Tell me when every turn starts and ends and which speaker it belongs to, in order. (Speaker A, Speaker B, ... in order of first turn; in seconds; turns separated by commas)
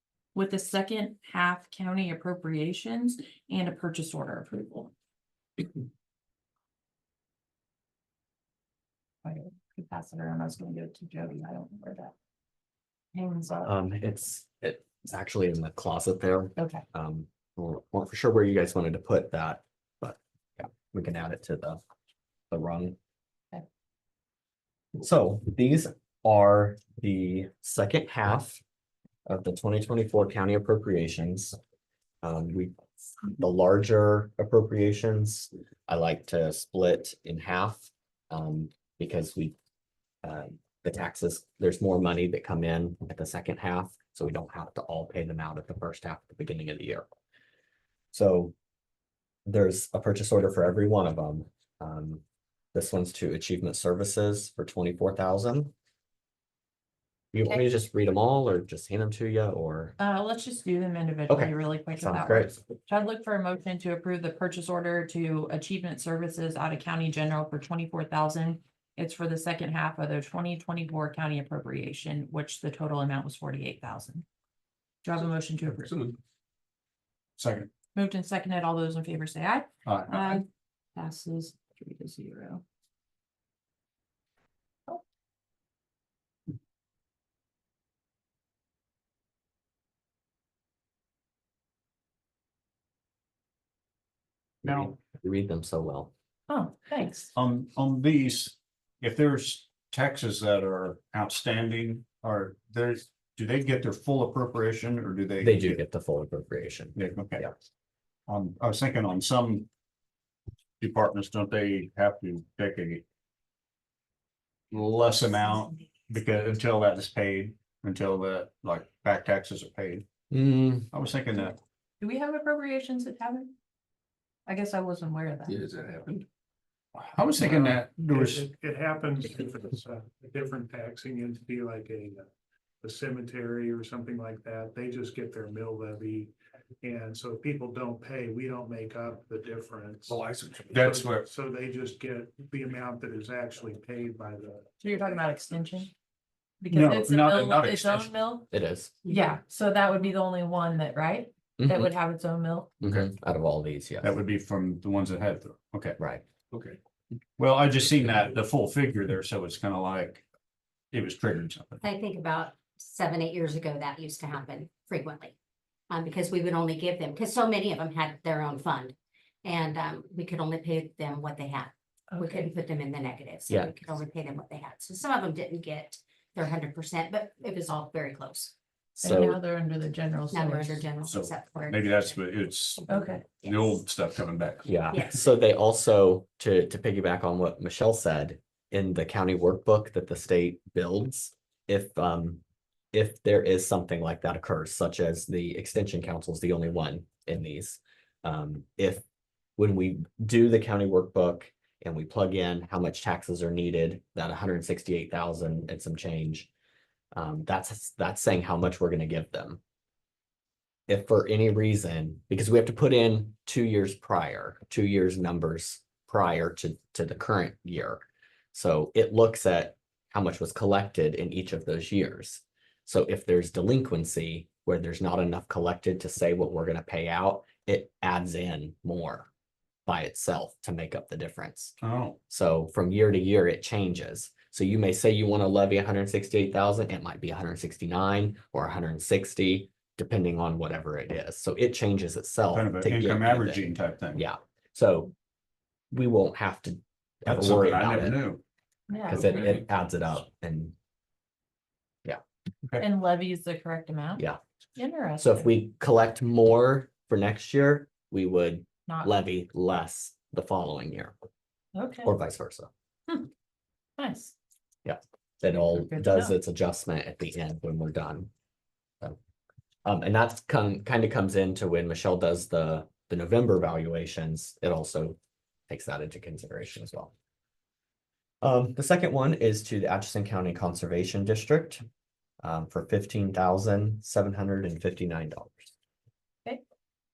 Speaker A: 0.3-4.9, Speaker A: 9.2-12.1, Speaker A: 13.1-13.7, Speaker B: 13.6-21.8, Speaker A: 16.6-16.8, Speaker B: 22.5-23.0, Speaker B: 25.0-28.6, Speaker B: 29.2-31.6, Speaker B: 32.2-39.5, Speaker B: 40.2-47.1, Speaker B: 48.1-48.5, Speaker B: 49.5-52.2, Speaker B: 52.7-55.7, Speaker B: 57.3-60.0, Speaker A: 60.0-74.2, Speaker B: 61.3-62.6, Speaker A: 75.0-76.1, Speaker C: 77.4-77.7, Speaker A: 77.9-82.6, Speaker C: 79.8-80.4, Speaker B: 94.6-96.1, Speaker A: 96.5-97.3, Speaker C: 97.3-105.8, Speaker B: 105.4-107.5, Speaker C: 107.0-107.5, Speaker C: 108.3-109.7, Speaker C: 110.8-113.0, Speaker C: 114.7-120.1, Speaker B: 120.3-120.9, Speaker C: 120.9-121.5, Speaker A: 122.0-123.5, Speaker A: 124.5-125.5, Speaker C: 125.5-126.2, Speaker C: 126.9-128.4, Speaker D: 127.4-132.3, Speaker D: 132.8-145.0, Speaker C: 140.1-141.3, Speaker A: 144.8-145.9, Speaker A: 146.6-148.5, Speaker C: 146.7-148.1, Speaker B: 148.5-148.9, Speaker A: 149.1-152.7, Speaker B: 151.6-151.9, Speaker B: 152.8-154.2, Speaker C: 152.8-153.1, Speaker C: 154.0-156.0, Speaker B: 156.0-156.2, Speaker C: 156.5-156.8, Speaker C: 157.4-160.2, Speaker C: 160.9-161.8, Speaker E: 161.8-165.3, Speaker E: 165.9-178.5, Speaker A: 172.1-172.5, Speaker A: 179.0-180.9, Speaker B: 179.0-179.4, Speaker E: 180.3-182.2, Speaker C: 181.0-184.8, Speaker A: 182.9-183.2, Speaker E: 182.9-183.7, Speaker B: 184.6-192.4, Speaker E: 184.9-185.3, Speaker B: 192.9-199.0, Speaker B: 199.6-206.5, Speaker B: 207.1-209.6, Speaker B: 210.9-229.3, Speaker B: 229.9-231.8, Speaker C: 231.8-232.2, Speaker B: 232.3-245.1, Speaker C: 242.5-244.2, Speaker B: 245.9-248.2, Speaker C: 247.2-248.4, Speaker A: 248.9-249.5, Speaker C: 249.1-249.6, Speaker B: 249.1-250.7, Speaker A: 252.8-254.2, Speaker A: 254.8-255.5, Speaker B: 255.2-261.1, Speaker A: 258.9-259.1, Speaker A: 261.7-262.1, Speaker B: 262.0-262.7, Speaker A: 264.0-264.3, Speaker B: 264.8-268.3, Speaker A: 265.8-266.3, Speaker B: 269.8-275.2, Speaker B: 275.7-277.1, Speaker B: 278.4-281.8, Speaker B: 282.4-285.7